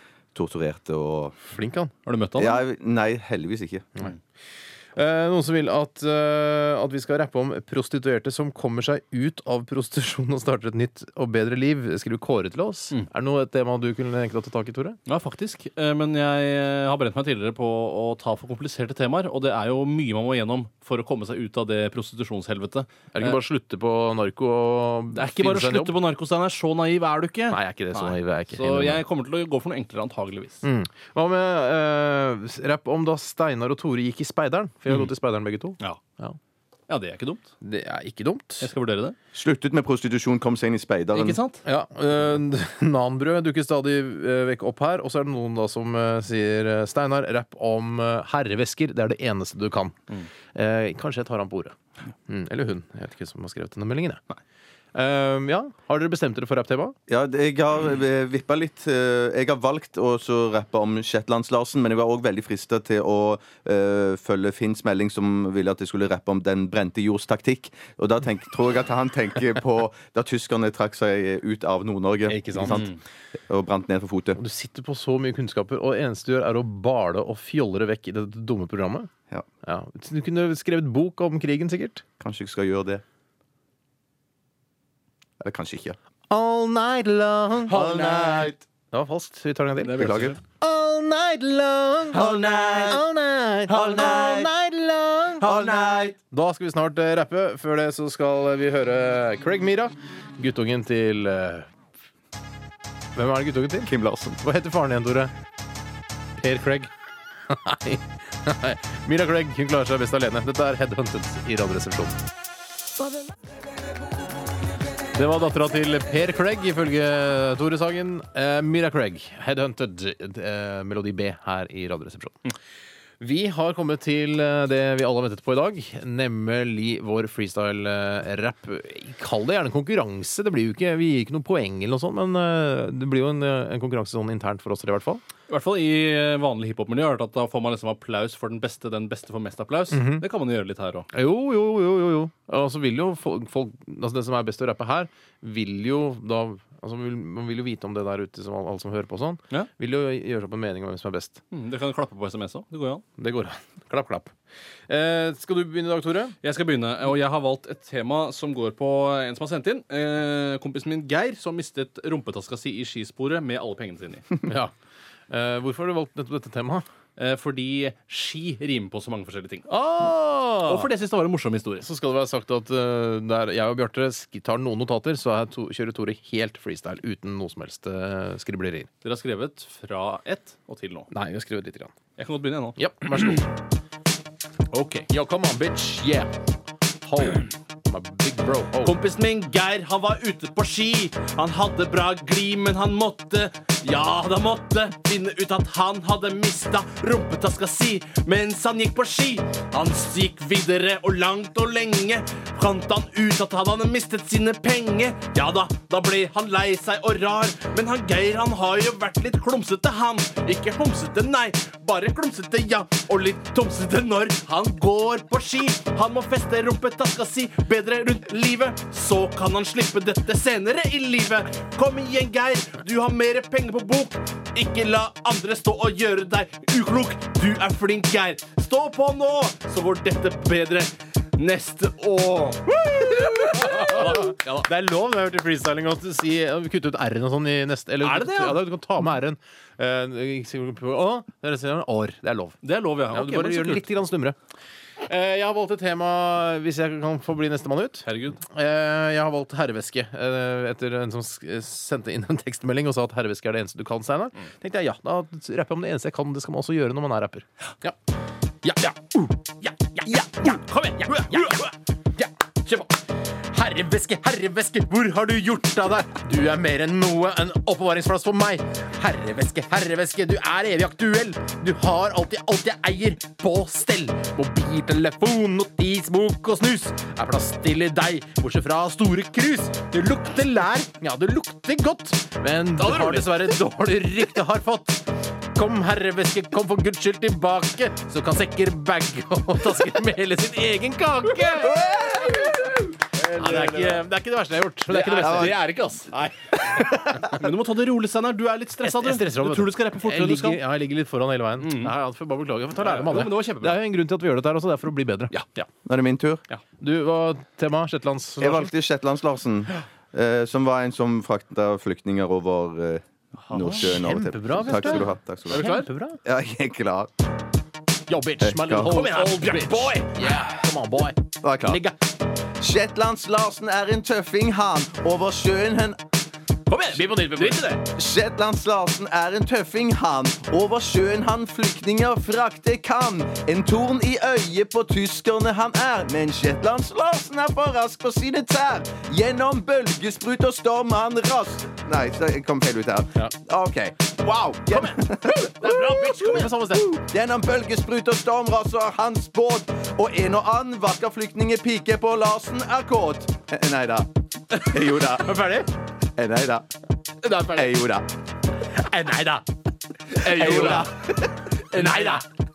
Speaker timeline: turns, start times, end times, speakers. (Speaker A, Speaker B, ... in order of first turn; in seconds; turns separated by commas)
Speaker A: 0.3-1.3, Speaker B: 1.4-1.9, Speaker C: 2.0-2.6, Speaker A: 2.4-3.9, Speaker B: 5.0-15.0, Speaker C: 15.1-23.3, Speaker B: 23.1-25.9, Speaker C: 25.1-30.6, Speaker B: 27.5-29.0, Speaker B: 30.6-36.4, Speaker C: 36.9-37.5, Speaker B: 37.6-38.7, Speaker C: 38.6-39.1, Speaker A: 39.3-41.4, Speaker C: 41.1-41.6, Speaker B: 41.6-50.0, Speaker B: 50.5-54.2, Speaker B: 54.9-56.9, Speaker A: 57.1-73.0, Speaker B: 72.3-72.9, Speaker A: 73.5-74.4, Speaker B: 74.4-79.1, Speaker B: 79.6-82.0, Speaker A: 82.2-83.0, Speaker A: 85.4-86.0, Speaker B: 86.3-87.8, Speaker A: 87.7-88.6, Speaker C: 87.7-88.3, Speaker B: 88.9-95.5, Speaker A: 89.9-90.4, Speaker C: 90.0-90.3, Speaker A: 92.1-93.0, Speaker A: 93.7-94.5, Speaker A: 95.4-96.2, Speaker B: 96.3-101.7, Speaker B: 103.1-105.3, Speaker A: 103.8-104.4, Speaker B: 106.4-106.9, Speaker B: 107.5-112.2, Speaker B: 115.1-122.5, Speaker B: 123.2-135.2, Speaker C: 135.5-141.1, Speaker B: 139.9-140.2, Speaker B: 141.1-151.4, Speaker C: 151.5-153.0, Speaker B: 153.2-154.3, Speaker B: 154.9-156.3, Speaker C: 156.4-164.3, Speaker B: 164.4-164.7, Speaker B: 165.3-166.8, Speaker C: 167.2-169.7, Speaker B: 169.7-170.9, Speaker C: 170.6-171.8, Speaker B: 171.8-178.9, Speaker C: 179.0-181.1, Speaker B: 181.1-181.9, Speaker C: 182.2-182.8, Speaker B: 182.8-183.5, Speaker C: 184.7-185.0, Speaker B: 185.1-186.3, Speaker B: 187.0-188.9, Speaker C: 188.8-234.6, Speaker B: 233.4-242.6, Speaker C: 238.0-238.6, Speaker C: 242.6-243.8, Speaker B: 243.1-244.4, Speaker B: 245.0-257.9, Speaker C: 248.1-248.4, Speaker B: 258.6-262.9, Speaker C: 260.1-261.7, Speaker B: 263.5-285.0, Speaker C: 282.8-283.5, Speaker B: 285.5-292.6, Speaker A: 291.7-292.4, Speaker C: 293.2-294.0, Speaker B: 293.3-296.1, Speaker C: 294.9-300.6, Speaker A: 295.1-295.7, Speaker A: 296.5-297.3, Speaker B: 298.8-305.4, Speaker C: 301.6-301.9, Speaker C: 302.8-303.8, Speaker A: 305.8-306.4, Speaker B: 306.8-308.7, Speaker A: 308.4-317.1, Speaker C: 313.5-313.9, Speaker B: 313.5-316.2, Speaker C: 315.5-315.9, Speaker B: 318.1-321.9, Speaker A: 318.4-319.0, Speaker C: 318.9-320.4, Speaker A: 321.4-321.8, Speaker A: 322.6-326.0, Speaker C: 326.7-327.8, Speaker B: 326.9-327.7, Speaker A: 327.9-345.7, Speaker C: 344.7-346.5, Speaker B: 345.6-347.0, Speaker A: 346.8-355.4, Speaker B: 355.0-355.7, Speaker A: 356.2-356.6, Speaker B: 357.2-357.6, Speaker A: 357.4-358.1, Speaker B: 358.9-359.4, Speaker C: 360.1-360.9, Speaker B: 360.2-360.9, Speaker A: 360.2-361.5, Speaker C: 361.7-362.2, Speaker B: 361.7-362.2